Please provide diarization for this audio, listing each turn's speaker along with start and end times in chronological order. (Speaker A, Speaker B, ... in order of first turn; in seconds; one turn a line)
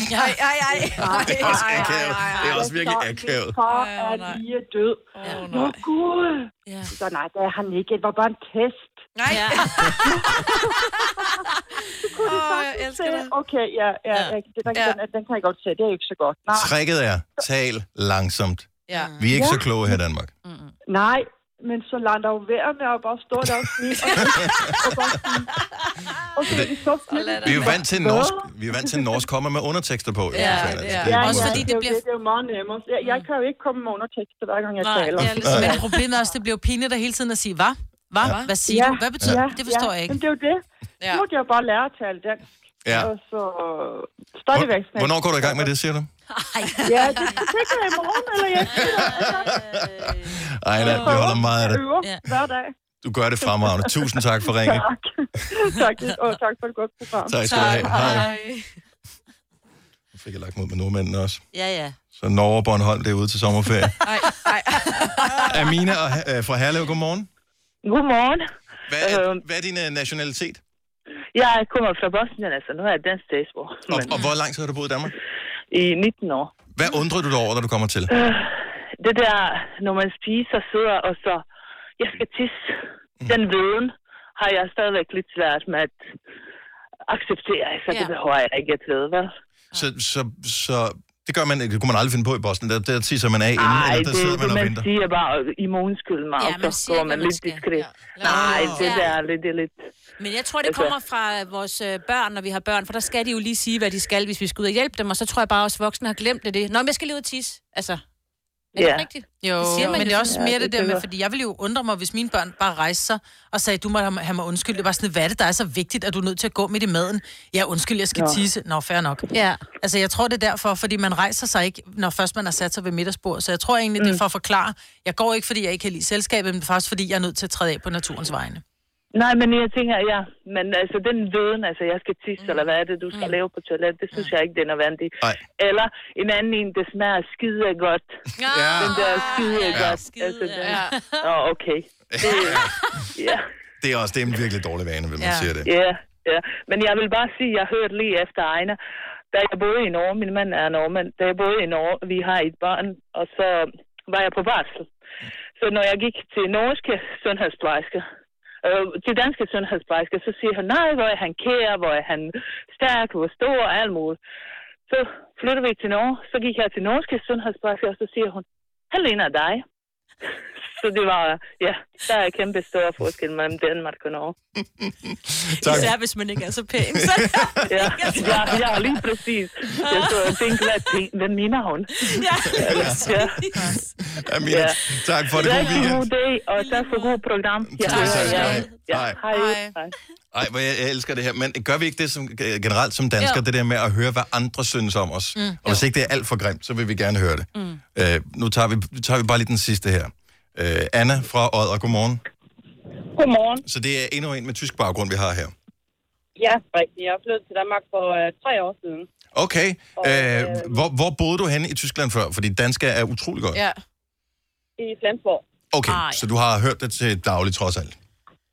Speaker A: 0.1-2.6
Speaker B: 0.7-9.1
Speaker C: 1.2-3.5
Speaker A: 3.7-4.4
Speaker A: 5.1-5.8
Speaker A: 9.1-11.1
Speaker D: 9.3-9.9
Speaker B: 10.0-11.4
Speaker B: 12.0-16.7
Speaker A: 12.2-13.3
Speaker A: 14.7-15.0
Speaker C: 16.5-20.3
Speaker A: 18.9-19.1
Speaker B: 19.3-19.7
Speaker D: 20.4-20.7
Speaker B: 20.9-25.5
Speaker C: 24.2-24.8
Speaker B: 26.3-29.2
Speaker A: 27.1-27.8
Speaker C: 27.4-31.7
Speaker A: 30.3-31.6
Speaker D: 30.3-31.0
Speaker B: 31.0-35.9
Speaker E: 31.2-32.0
Speaker C: 35.2-35.8
Speaker E: 35.4-40.2
Speaker A: 38.2-38.5
Speaker B: 38.6-45.7
Speaker C: 44.5-46.1
Speaker D: 46.3-47.5
Speaker B: 46.8-49.5
Speaker A: 47.1-47.4
Speaker D: 48.7-51.4
Speaker C: 49.4-51.8
Speaker B: 50.8-52.7
Speaker C: 53.0-54.8
Speaker B: 53.4-57.9
Speaker C: 57.3-58.3
Speaker A: 57.5-58.6
Speaker D: 57.5-58.3
Speaker C: 60.1-61.4
Speaker D: 61.5-61.9
Speaker C: 62.1-64.0
Speaker A: 64.0-65.5
Speaker C: 65.5-67.3
Speaker F: 67.8-68.4
Speaker C: 68.9-70.6
Speaker F: 69.0-69.4
Speaker F: 71.3-74.1
Speaker C: 73.9-75.1
Speaker F: 75.7-76.6
Speaker C: 76.7-78.1
Speaker F: 78.1-81.4
Speaker F: 82.0-86.0
Speaker F: 87.1-89.3
Speaker C: 89.7-94.8
Speaker F: 93.5-99.8
Speaker D: 96.4-97.6
Speaker A: 97.8-98.8
Speaker C: 98.2-99.1
Speaker D: 98.2-99.1
Speaker D: 100.2-108.0
Speaker F: 100.6-100.9
Speaker D: 108.7-110.3
Speaker F: 108.8-109.1
Speaker A: 109.4-110.2
Speaker E: 109.6-119.2
Speaker F: 110.2-111.0
Speaker F: 118.1-118.4
Speaker D: 119.3-119.6
Speaker E: 119.8-128.6
Speaker F: 129.1-138.1
Speaker D: 138.4-141.0
Speaker C: 138.4-139.0
Speaker F: 138.7-143.5
Speaker C: 139.7-140.0
Speaker A: 140.6-141.0
Speaker C: 142.1-142.8
Speaker D: 142.2-142.6
Speaker C: 143.8-145.7
Speaker F: 145.6-148.8
Speaker F: 149.3-154.9
Speaker F: 155.6-158.0
Speaker F: 158.6-164.2
Speaker F: 164.9-169.6
Speaker F: 170.7-174.3
Speaker C: 174.8-175.9
Speaker D: 175.6-177.2
Speaker C: 176.9-178.6
Speaker F: 177.7-183.4
Speaker D: 178.0-178.8
Speaker D: 179.8-180.6
Speaker D: 182.1-183.8
Speaker C: 182.5-183.2
Speaker C: 184.0-186.0
Speaker F: 184.5-184.8
Speaker F: 185.3-189.9
Speaker D: 185.4-185.9
Speaker D: 186.6-187.1
Speaker C: 187.7-189.2
Speaker D: 187.8-188.7
Speaker A: 189.3-189.7
Speaker C: 190.3-202.2
Speaker G: 203.1-203.6
Speaker C: 203.6-205.5
Speaker G: 206.4-209.1
Speaker C: 209.3-213.6
Speaker G: 210.0-210.8
Speaker A: 213.5-213.8
Speaker G: 214.8-215.4
Speaker C: 215.7-217.9
Speaker D: 215.9-216.2